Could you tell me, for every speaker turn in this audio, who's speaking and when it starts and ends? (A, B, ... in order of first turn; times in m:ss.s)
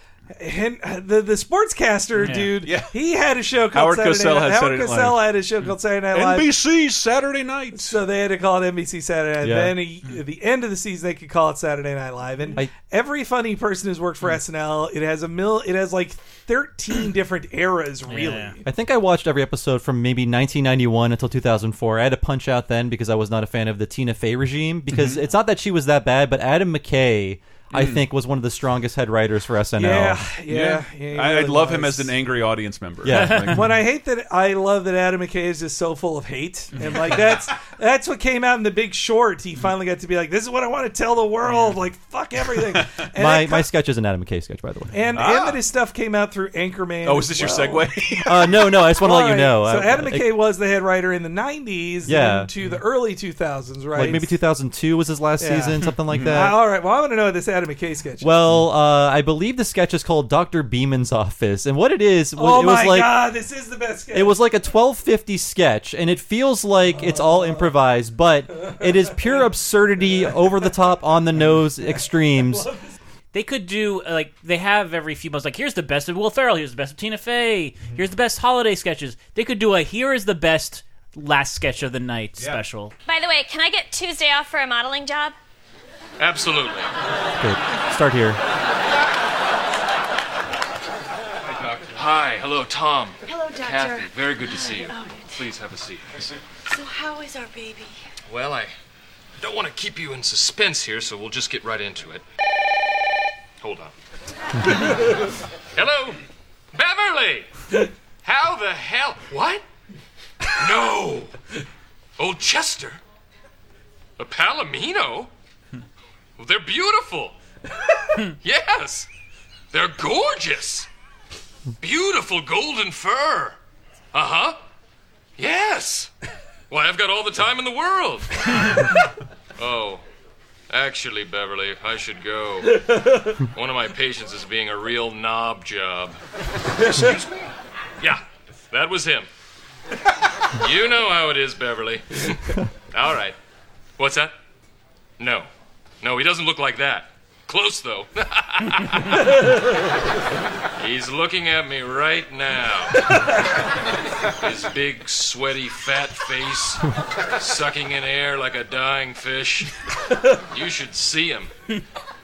0:00.4-0:06.5 A
0:02.2-0:02.6 B
0:02.6-0:02.9 C
0:03.7-0:05.2 C
0:06.1-0:08.0 C
0:07.7-0:18.6 A
0:09.4-0:09.7 C
0:18.1-0:18.5 B
0:18.6-0:30.2 D
0:24.9-0:25.2 C
0:27.7-0:28.0 C
0:29.8-0:32.1 A
0:30.5-0:33.7 C
0:33.0-0:33.5 D
0:33.1-0:33.6 B
0:33.5-0:43.7 A
0:41.4-0:41.8 B
0:43.2-0:45.0 D
0:44.9-0:47.9 A
0:45.1-0:45.6 C
0:47.0-0:48.6 C
0:48.3-0:50.3 D
0:49.0-0:54.3 A
0:52.0-0:52.5 D
0:53.9-0:56.6 D
0:55.4-0:58.3 A
0:56.1-0:56.4 C
0:58.2-1:03.3 D
1:02.4-1:04.4 A
1:04.1-1:12.7 D
1:06.9-1:07.7 A
1:11.5-1:12.9 A
1:13.3-1:22.9 B
1:23.0-1:25.3 E
1:26.2-1:26.9 F
1:27.4-1:28.4 D
1:31.6-1:36.3 F
1:34.6-1:35.1 E
1:36.7-1:37.9 E
1:38.3-1:38.7 F
1:39.4-1:42.2 F
1:43.6-1:43.9 F
1:45.7-1:46.2 F
1:46.7-1:47.5 F
1:48.2-1:49.6 F
1:50.6-1:51.3 F
1:52.2-1:53.0 F
1:54.2-1:55.3 F
1:56.4-1:57.3 F
1:58.4-1:59.1 F
1:59.7-2:00.9 F
2:01.8-2:03.6 F
2:04.1-2:04.6 F
2:05.4-2:06.1 F
2:06.7-2:08.8 F
2:09.6-2:10.0 F
2:10.7-2:16.2 F
2:18.0-2:19.3 F
2:20.6-2:22.3 F
2:22.9-2:23.4 F
2:24.0-2:24.3 F
2:25.2-2:25.5 F
2:26.0-2:29.2 F
2:30.8-2:33.0 F
2:34.4-2:36.8 F
2:37.4-2:39.7 F
2:40.5-2:41.5 F